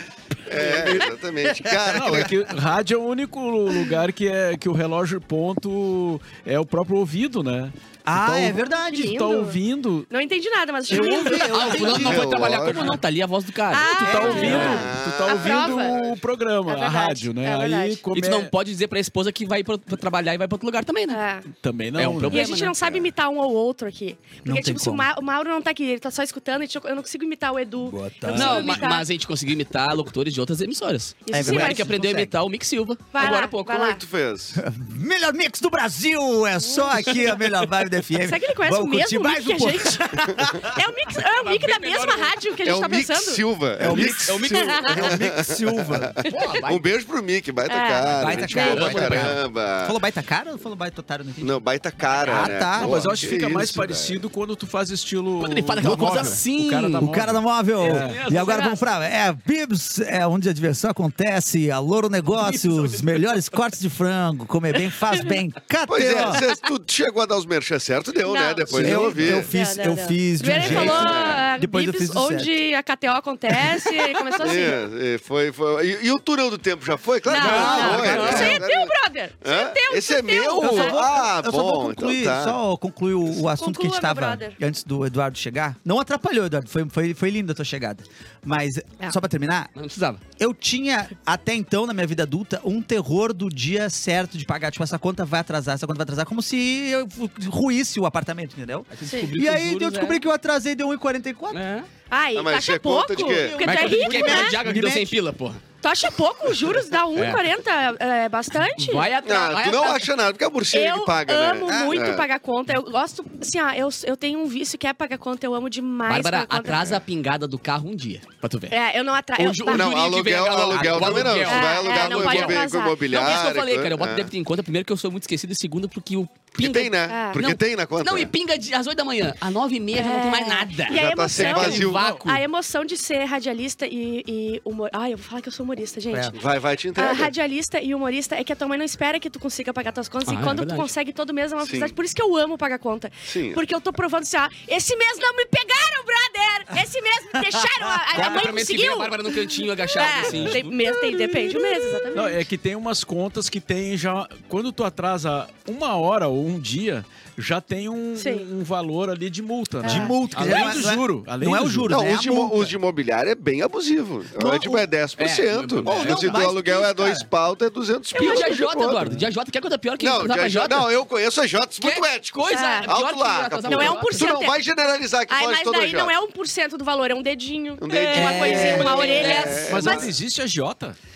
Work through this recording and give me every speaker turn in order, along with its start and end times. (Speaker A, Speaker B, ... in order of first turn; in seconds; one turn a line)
Speaker A: 0.5-2.3
Speaker B: 0.5-1.1
Speaker C: 1.6-2.4
Speaker D: 1.9-10.1
Speaker C: 8.1-9.1
Speaker E: 8.7-9.6
Speaker E: 10.1-11.7
Speaker C: 10.9-12.9
Speaker B: 10.9-14.8
Speaker A: 11.5-13.0
Speaker E: 13.7-16.0
Speaker D: 13.9-18.5
Speaker A: 14.2-16.1
Speaker E: 16.7-18.0
Speaker B: 18.1-21.2
Speaker E: 21.1-21.5
Speaker D: 21.5-22.4
Speaker B: 21.9-23.0
Speaker E: 22.3-29.1
Speaker C: 24.4-25.1
Speaker C: 27.8-28.8
Speaker B: 28.3-34.0
Speaker E: 31.2-31.9
Speaker C: 31.3-32.3
Speaker E: 33.1-34.0
Speaker A: 33.9-34.6
Speaker C: 34.5-40.8
Speaker E: 36.6-37.1
Speaker E: 38.2-43.4
Speaker B: 41.1-42.4
Speaker A: 42.6-50.0
Speaker C: 43.8-46.1
Speaker B: 43.9-45.1
Speaker E: 44.5-45.0
Speaker B: 46.2-46.9
Speaker E: 47.6-49.1
Speaker C: 48.0-51.6
Speaker B: 48.5-49.4
Speaker A: 51.4-54.2
Speaker C: 52.2-53.0
Speaker D: 52.7-58.3
Speaker B: 55.4-57.1
Speaker C: 55.8-56.4
Speaker C: 57.0-66.4
Speaker B: 57.8-58.7
Speaker E: 58.3-58.8
Speaker B: 62.4-63.2
Speaker A: 65.9-69.5
Speaker E: 68.2-74.9
Speaker C: 68.7-72.5
Speaker A: 70.5-71.5
Speaker C: 73.8-74.7
Speaker A: 74.4-82.6
Speaker E: 77.2-81.0
Speaker B: 77.3-78.6
Speaker C: 77.4-78.6
Speaker C: 80.6-89.7
Speaker E: 83.4-84.6
Speaker B: 89.7-90.2
Speaker C: 90.4-101.6
Speaker B: 98.9-100.2
Speaker E: 99.0-99.3
Speaker B: 101.5-101.9
Speaker E: 102.1-104.6
Speaker A: 102.3-103.6
Speaker C: 103.1-105.1
Speaker B: 103.6-105.6
Speaker E: 105.8-109.2
Speaker B: 107.1-107.4
Speaker B: 108.8-110.1
Speaker A: 109.2-112.3
Speaker E: 110.7-117.0
Speaker C: 111.7-112.1
Speaker B: 116.1-118.8
Speaker E: 118.7-120.0
Speaker B: 119.3-132.4
Speaker A: 119.6-124.3
Speaker E: 121.0-123.0
Speaker A: 126.5-128.3
Speaker E: 127.1-127.4
Speaker E: 129.9-136.4
Speaker A: 130.9-132.1
Speaker D: 131.3-132.3
Speaker A: 136.3-137.3
Speaker E: 136.9-152.4
Speaker B: 140.2-140.9
Speaker A: 141.6-141.9
Speaker A: 143.3-143.6
Speaker C: 147.4-148.5
Speaker B: 148.1-150.8
Speaker D: 150.2-150.6
Speaker D: 152.1-161.9
Speaker E: 158.2-158.4
Speaker E: 159.8-160.2
Speaker C: 159.8-162.8
Speaker B: 160.4-160.8
Speaker A: 161.9-169.2
Speaker C: 164.4-164.9
Speaker B: 165.2-166.5
Speaker C: 165.8-167.3
Speaker E: 168.1-168.6
Speaker B: 168.1-170.9
Speaker A: 170.0-176.1
Speaker B: 171.8-174.4
Speaker E: 172.5-172.9
Speaker E: 173.7-174.6
Speaker E: 175.3-180.0
Speaker A: 177.8-180.1
Speaker C: 178.1-179.6
Speaker D: 179.6-181.0